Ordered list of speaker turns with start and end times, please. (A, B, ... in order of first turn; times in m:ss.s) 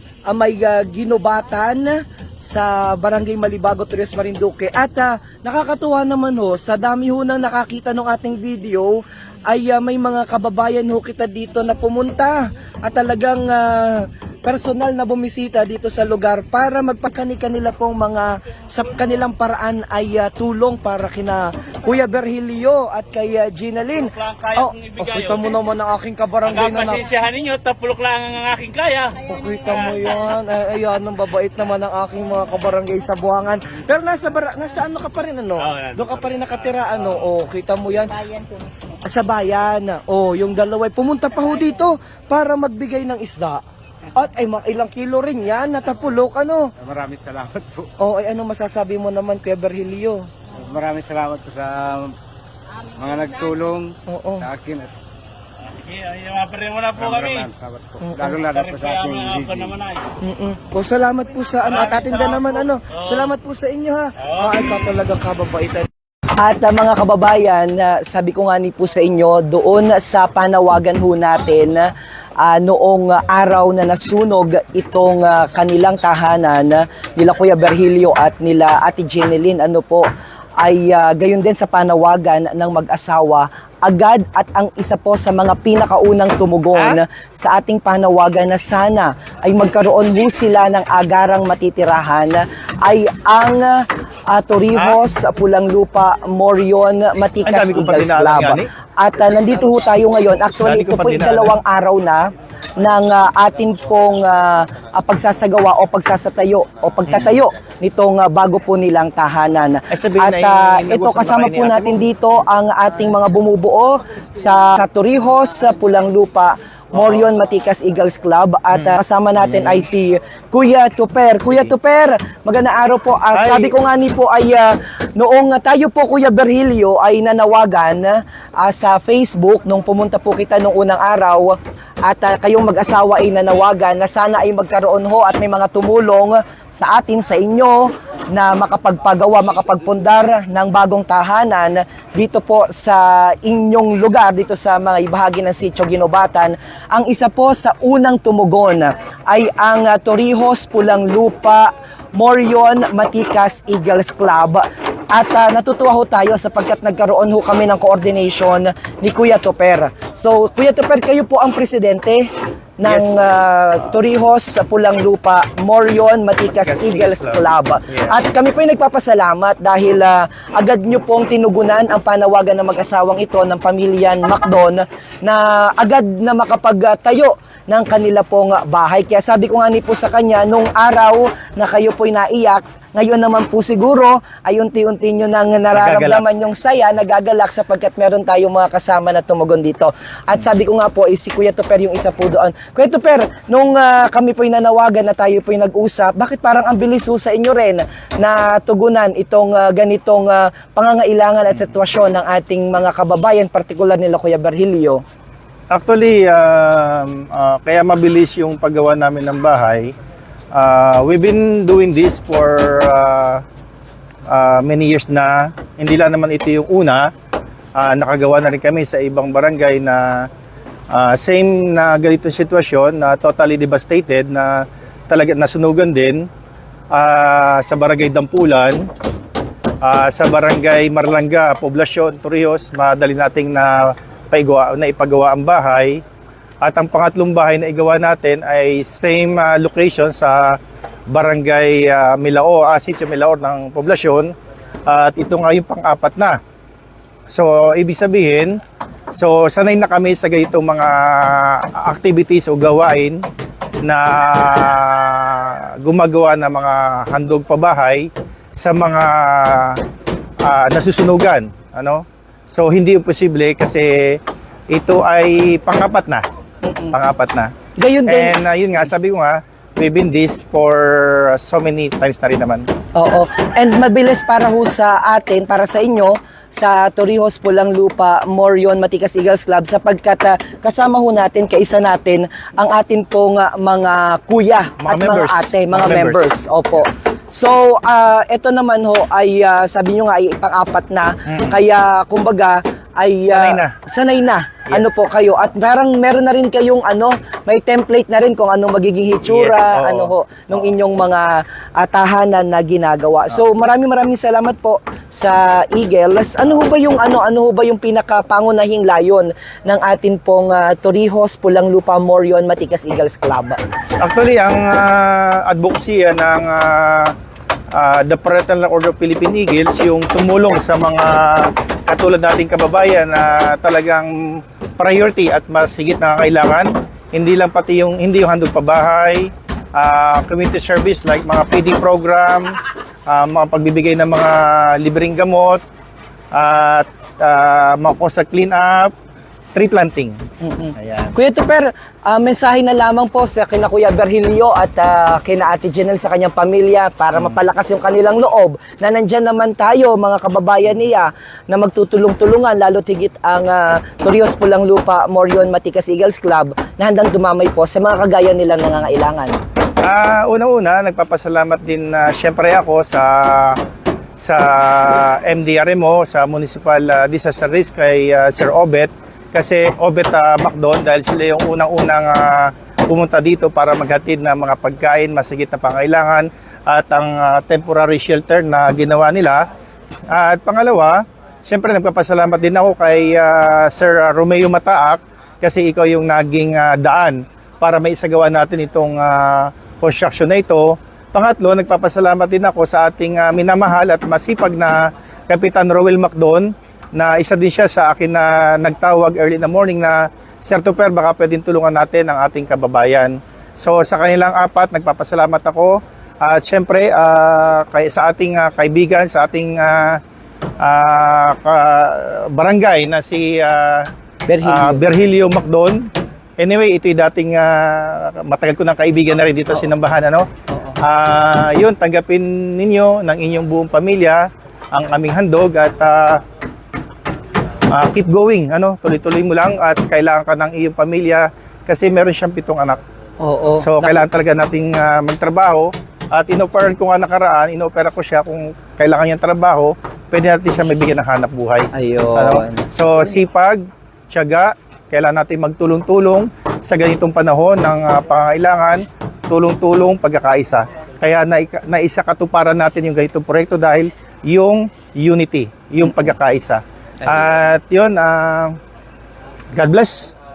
0:00.3-0:27.0 A
0:24.2-0:25.4 B
0:26.5-0:29.2 B
0:29.2-0:38.2 A
0:35.7-0:36.0 B
0:39.0-0:43.6 A
0:44.1-0:46.7 A
0:46.8-0:47.9 C
0:48.0-0:50.2 A
0:50.6-0:52.1 C
0:52.9-0:54.9 C
0:54.0-0:54.5 A
0:55.8-0:57.5 B
0:56.9-0:59.8 C
0:58.0-0:58.3 A
0:58.5-1:00.1 B
1:00.2-1:05.9 A
1:01.8-1:02.4 B
1:06.4-1:20.1 A
1:20.6-1:42.2 A
1:26.7-1:27.0 D
1:34.7-1:35.0 D
1:37.4-1:38.7 D
1:40.6-1:41.5 D
1:42.8-2:42.3 A
1:47.1-1:47.4 D
1:49.9-1:52.0 D
1:59.5-1:59.8 D
2:03.3-2:03.7 D
2:42.8-3:25.0 A
2:42.8-2:43.2 D
2:46.5-2:48.2 D
3:05.7-3:06.2 D
3:25.7-3:29.9 D
3:30.5-3:33.4 D
3:34.3-3:37.0 D
3:37.8-3:40.2 D
3:40.9-3:46.2 D
3:46.9-3:48.8 D
3:49.8-3:56.0 D
3:56.6-4:00.6 D
4:01.1-4:04.3 D
4:04.9-4:06.4 D
4:07.3-4:08.6 D
4:09.1-4:13.2 D
4:13.8-4:19.8 D
4:20.4-4:24.2 D
4:24.7-4:26.2 D
4:26.6-4:26.9 A
4:26.9-4:27.5 D
4:27.8-4:28.3 A
4:28.0-4:32.6 D
4:33.0-5:13.6 A
4:44.8-4:46.3 D
4:51.2-4:51.6 D
4:53.2-4:53.7 D
4:54.7-4:55.0 D
4:59.2-5:00.1 D
5:14.0-5:17.1 D
5:17.7-5:32.5 D
5:33.1-5:35.6 D
5:36.3-5:38.9 D
5:39.5-5:40.2 D
5:40.4-5:59.4 A
5:40.8-5:41.1 D
5:59.8-6:03.6 D
6:04.2-6:19.4 D
6:20.1-6:34.7 D
6:35.3-6:50.0 D
6:50.6-6:53.9 D
6:54.3-6:54.8 A
6:54.4-6:55.8 D
6:56.4-7:00.2 D
7:00.5-7:00.8 A
7:00.8-7:06.2 D
7:07.7-7:12.8 D
7:13.2-7:14.0 A
7:13.6-7:38.6 D
7:21.7-7:22.7 A
7:39.5-7:40.1 D